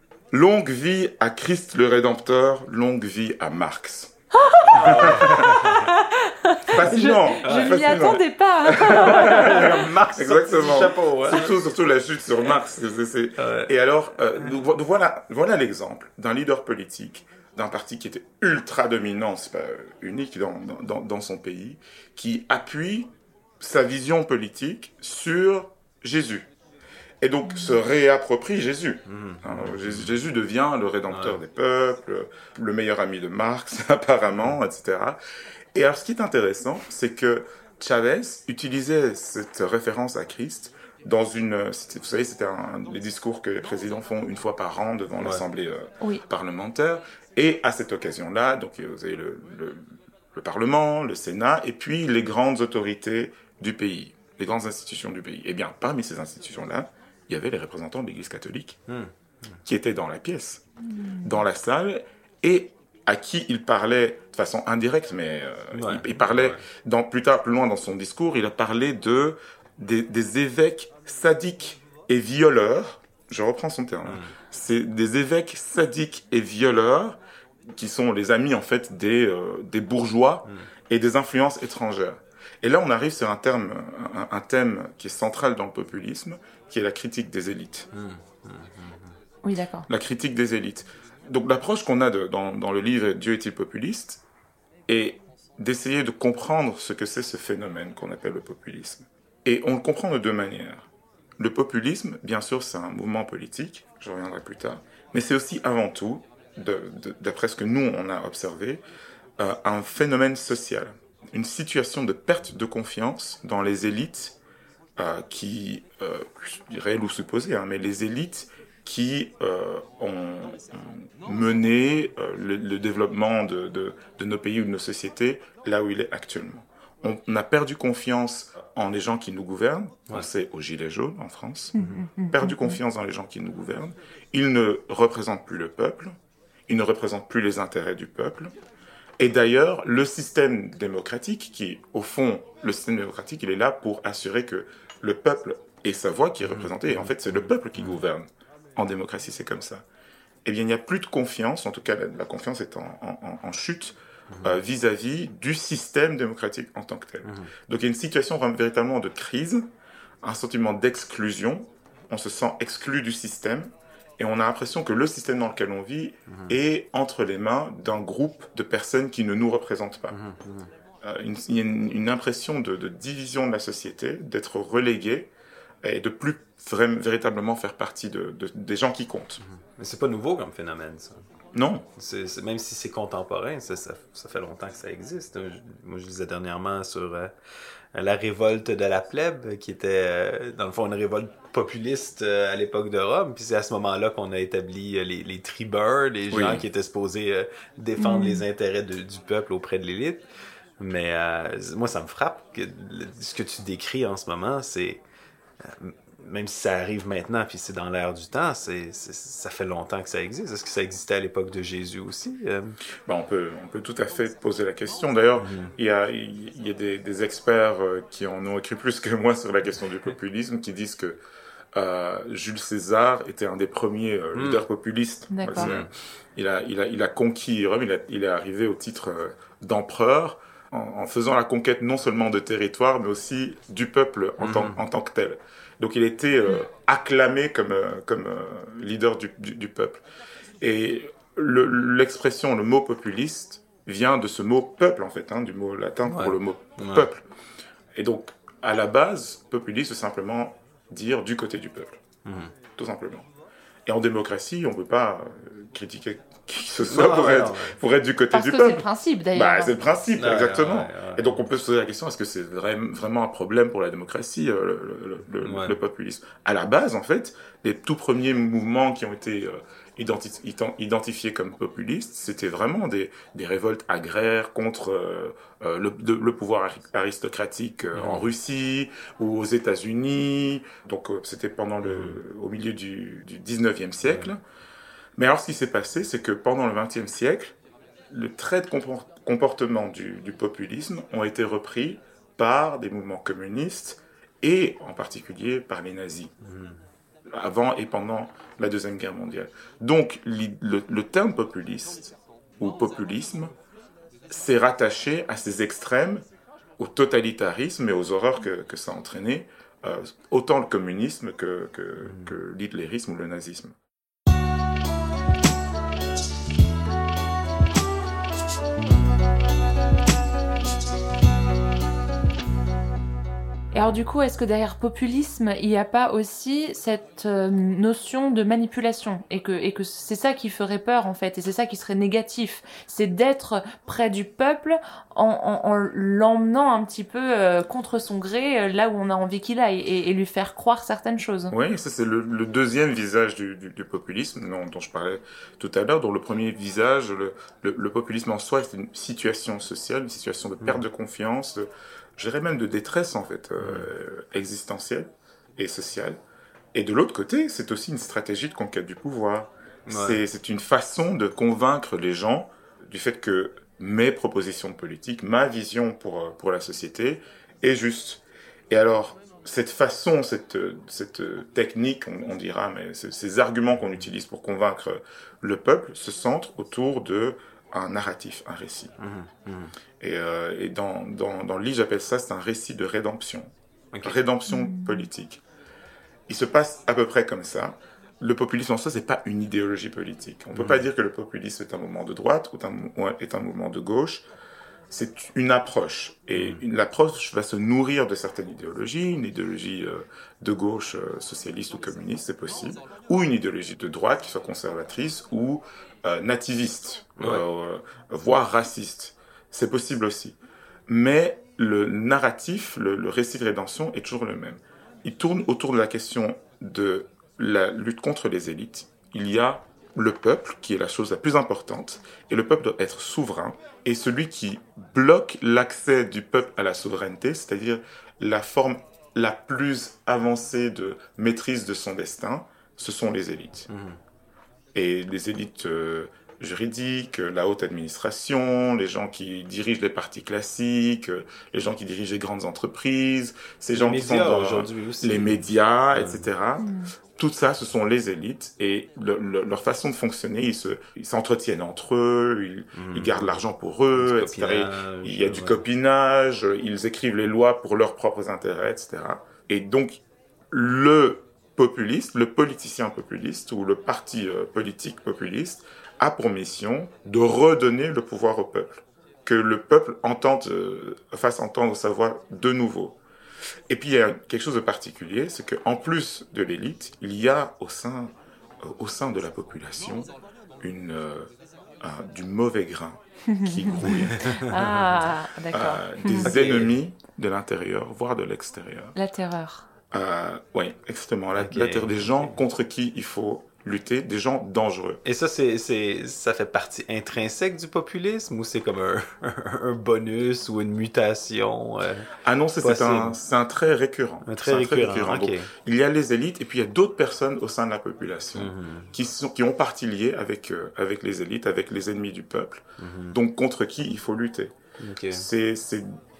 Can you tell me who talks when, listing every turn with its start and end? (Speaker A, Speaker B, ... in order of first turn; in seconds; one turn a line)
Speaker A: 0.3-4.1
Speaker B: 4.3-9.8
Speaker C: 4.7-5.8
Speaker A: 4.7-5.5
Speaker A: 6.7-26.5
Speaker C: 7.4-8.2
Speaker C: 8.8-11.6
Speaker C: 13.4-13.7
Speaker A: 27.2-35.2
Speaker C: 29.1-30.1
Speaker C: 31.1-31.4
Speaker A: 35.7-49.8
Speaker A: 50.3-58.8
Speaker C: 58.9-59.6
Speaker A: 59.6-60.6
Speaker B: 60.9-61.4
Speaker A: 61.2-77.2
Speaker C: 65.7-66.6
Speaker C: 74.0-74.3
Speaker A: 77.7-87.9
Speaker C: 87.9-89.1
Speaker B: 89.4-89.9
Speaker A: 89.9-94.2
Speaker A: 94.9-100.9
Speaker A: 101.4-108.8
Speaker A: 109.4-114.4
Speaker A: 115.0-131.7
Speaker B: 131.7-132.7
Speaker A: 132.3-136.1
Speaker A: 136.7-138.5
Speaker A: 139.2-149.8
Speaker C: 146.4-147.9
Speaker A: 150.4-159.7
Speaker C: 154.3-154.6
Speaker C: 157.2-157.5
Speaker A: 160.2-170.2
Speaker C: 166.3-166.6
Speaker C: 170.1-170.7
Speaker A: 171.0-175.3
Speaker A: 175.8-179.4
Speaker C: 179.4-181.2
Speaker A: 181.5-181.8
Speaker C: 182.0-187.3
Speaker C: 187.9-200.2
Speaker A: 196.3-196.7
Speaker B: 198.0-198.4
Speaker C: 200.8-205.0
Speaker C: 205.6-212.8
Speaker A: 213.1-221.2
Speaker C: 215.4-215.7
Speaker A: 221.7-240.0
Speaker C: 224.3-224.6
Speaker B: 225.3-225.7
Speaker C: 225.5-225.9
Speaker C: 234.4-234.8
Speaker A: 240.6-247.2
Speaker C: 246.0-247.1
Speaker A: 247.9-252.0
Speaker C: 252.2-252.5
Speaker A: 252.8-253.3
Speaker A: 253.8-284.4
Speaker C: 256.9-257.8
Speaker B: 258.3-259.7
Speaker C: 260.2-261.4
Speaker C: 265.4-265.8
Speaker C: 277.9-278.3
Speaker C: 281.8-282.2
Speaker A: 285.2-287.5
Speaker A: 288.1-296.3
Speaker C: 296.4-296.8
Speaker A: 297.3-303.5
Speaker A: 304.3-306.2
Speaker A: 306.8-313.8
Speaker B: 323.7-341.5
Speaker A: 341.5-356.2
Speaker C: 353.6-353.9
Speaker A: 356.7-378.9
Speaker C: 359.9-360.2
Speaker C: 379.0-379.7
Speaker A: 380.0-383.5
Speaker A: 384.0-385.4
Speaker B: 384.5-385.0
Speaker A: 386.3-394.2
Speaker C: 390.5-390.8
Speaker A: 394.9-433.7
Speaker C: 396.3-396.6
Speaker C: 433.7-434.0
Speaker A: 434.7-472.9
Speaker C: 443.7-446.2
Speaker B: 446.6-446.9
Speaker C: 452.7-453.3
Speaker C: 454.0-455.6
Speaker A: 473.7-480.1
Speaker A: 480.6-481.3
Speaker A: 481.8-484.3
Speaker B: 483.3-486.3
Speaker A: 485.5-488.9
Speaker C: 486.2-486.8
Speaker B: 488.9-489.6
Speaker A: 489.9-495.0
Speaker C: 491.4-492.4
Speaker C: 495.0-502.1
Speaker A: 502.2-514.5
Speaker C: 502.6-503.1
Speaker C: 504.2-505.5
Speaker C: 508.3-508.9
Speaker C: 512.8-513.2
Speaker C: 514.8-515.3
Speaker A: 515.1-515.9